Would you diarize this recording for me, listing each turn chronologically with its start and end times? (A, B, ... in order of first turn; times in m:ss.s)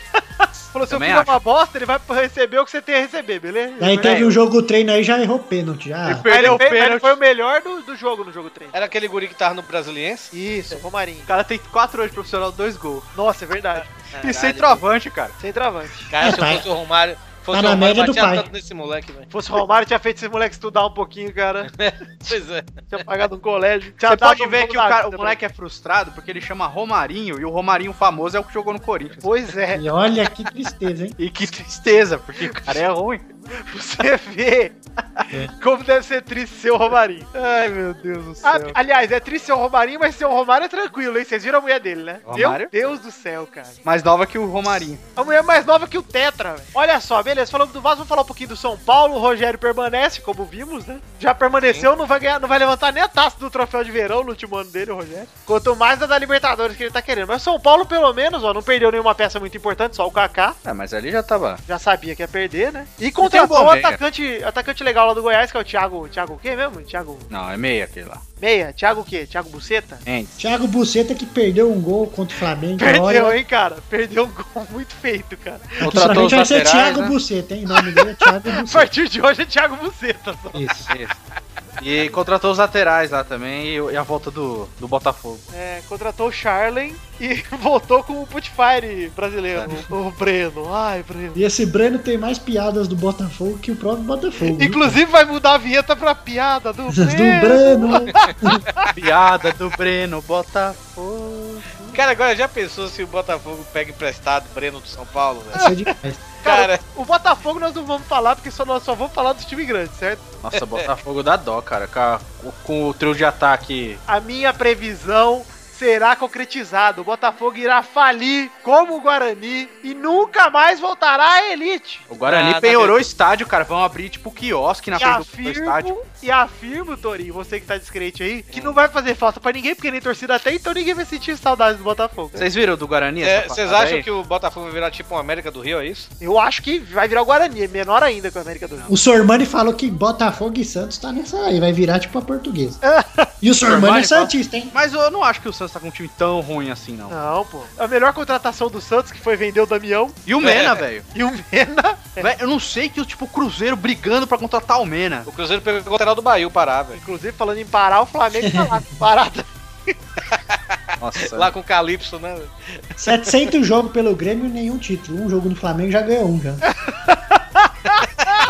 0:00.2-0:04.3 A
0:00.9-0:01.4 B
0:03.8-0:06.6 C
0:06.1-0:07.2 B
0:06.3-0:08.8 A
0:08.7-0:10.3 D
0:10.3-0:11.3 A
0:11.3-0:13.1 B
0:13.2-0:13.9 A
0:14.1-0:14.8 D
0:14.2-0:15.4 B
0:15.4-0:16.1 A
0:16.1-0:19.3 D
0:16.2-0:16.7 C
0:17.5-0:18.5 C
0:19.3-0:21.7 A
0:21.7-0:22.9 D
0:22.9-0:25.4 A
0:24.0-0:29.3 B
0:29.2-0:29.8 A
0:29.7-0:31.2 C
0:31.2-0:33.2 B
0:32.5-0:32.8 A
0:33.5-0:34.8 A
0:35.6-0:37.3 A
0:37.4-0:38.8 B
0:38.4-0:43.8 A
0:42.2-0:42.7 B
0:43.8-0:45.0 B
0:45.2-1:00.6 A
1:00.6-1:01.6 B
1:01.7-1:07.3 A
1:03.2-1:04.0 B
1:07.3-1:08.2 B
1:08.4-1:10.0 A
1:10.1-1:10.4 B
1:10.4-1:13.4 C
1:12.8-1:16.1 A
1:15.8-1:17.2 B
1:15.8-1:18.9 C
1:17.7-1:20.7 A
1:20.5-1:20.9 C
1:20.9-1:21.1 B
1:21.8-1:25.4 B
1:25.5-1:31.4 A
1:31.4-1:35.0 C
1:34.5-1:38.9 A
1:36.9-1:38.6 C
1:38.9-1:41.9 B
1:41.9-1:45.8 D
1:45.5-1:46.2 C
1:46.4-1:46.8 D
1:46.4-1:50.2 A
1:50.4-1:54.0 B
1:50.6-1:50.9 D
1:54.1-2:02.1 A
2:02.1-2:06.0 B
2:02.3-2:03.0 D
2:05.0-2:12.5 A
2:12.4-2:14.1 B
2:13.2-2:16.1 D
2:16.2-2:18.9 A
2:18.9-2:22.8 C
2:22.8-2:23.3 A
2:23.4-2:24.7 C
2:23.6-2:27.1 B
2:27.1-2:30.2 A
2:30.3-2:31.1 B
2:30.4-2:30.8 D
2:31.1-2:32.3 A
2:32.2-2:35.3 B
2:35.3-2:37.0 D
2:37.0-2:39.5 A
2:38.4-2:38.8 C
2:41.0-2:41.5 B
2:41.2-2:43.2 D
2:43.0-2:46.6 C
2:46.9-2:48.1 A